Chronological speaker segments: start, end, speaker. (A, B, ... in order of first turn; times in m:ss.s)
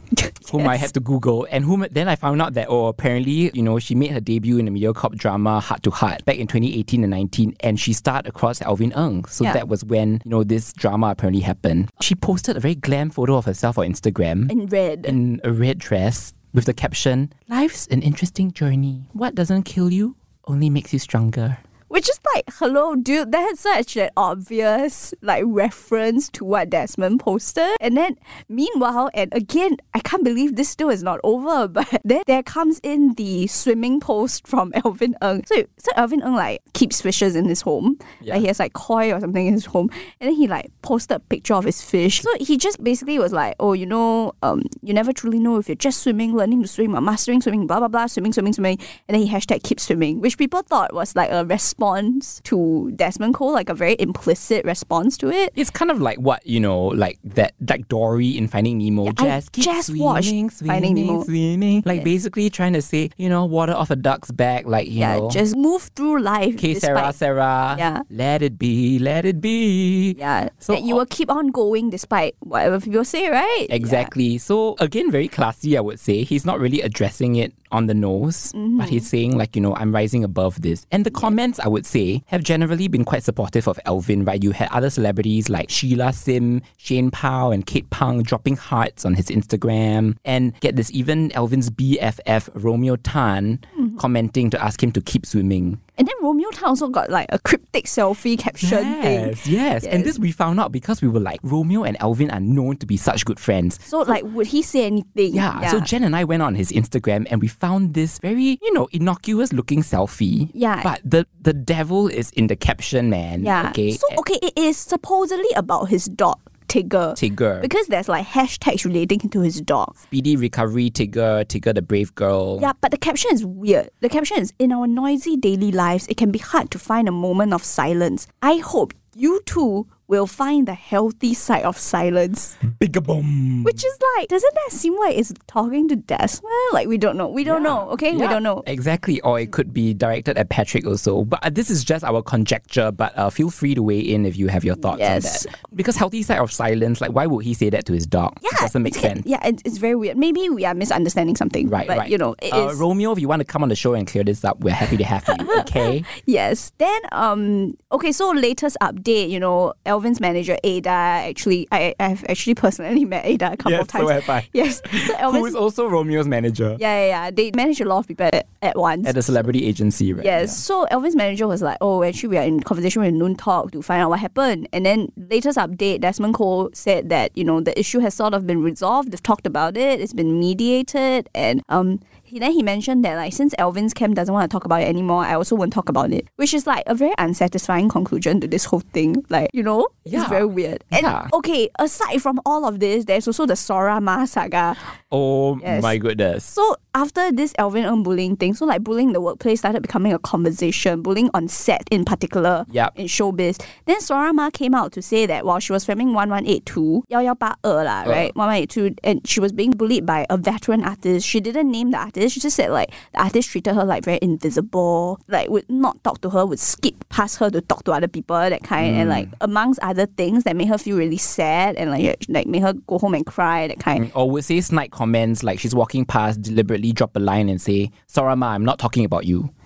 0:00.2-0:00.9 A
0:00.5-0:14.5 B
0:14.5-0:15.2 A
0:15.1-0:21.6 B
0:21.9-0:55.5 A
0:55.6-1:05.4 B
0:59.0-1:01.3 A
1:05.0-1:07.2 A
1:06.6-1:11.0 B
1:07.8-1:08.0 A
1:10.2-1:14.1 A
1:13.7-1:35.8 B
1:18.5-1:19.1 A
1:36.0-1:40.1 A
1:38.6-1:43.9 B
1:43.9-1:45.9 A
1:45.3-1:54.2 B
1:50.5-1:50.9 A
1:53.4-2:00.0 A
1:57.2-1:57.7 B
2:00.1-2:02.7 B
2:02.6-2:12.6 A
2:12.6-2:13.8 B
2:13.6-2:18.7 A
2:17.4-2:29.2 B
2:24.9-2:25.5 A
2:28.4-2:32.8 A
2:31.7-2:36.1 B
2:35.4-2:45.6 A
2:43.6-2:46.8 B
2:46.8-2:49.4 A
2:49.0-2:50.6 B
2:50.2-3:14.8 A
3:10.1-3:11.3 B
3:15.1-3:16.5 B
3:15.6-3:15.9 A
3:16.5-3:44.1 A
3:22.7-3:22.9 B
3:28.0-3:28.3 B
3:38.8-3:39.3 B
3:44.0-3:49.5 B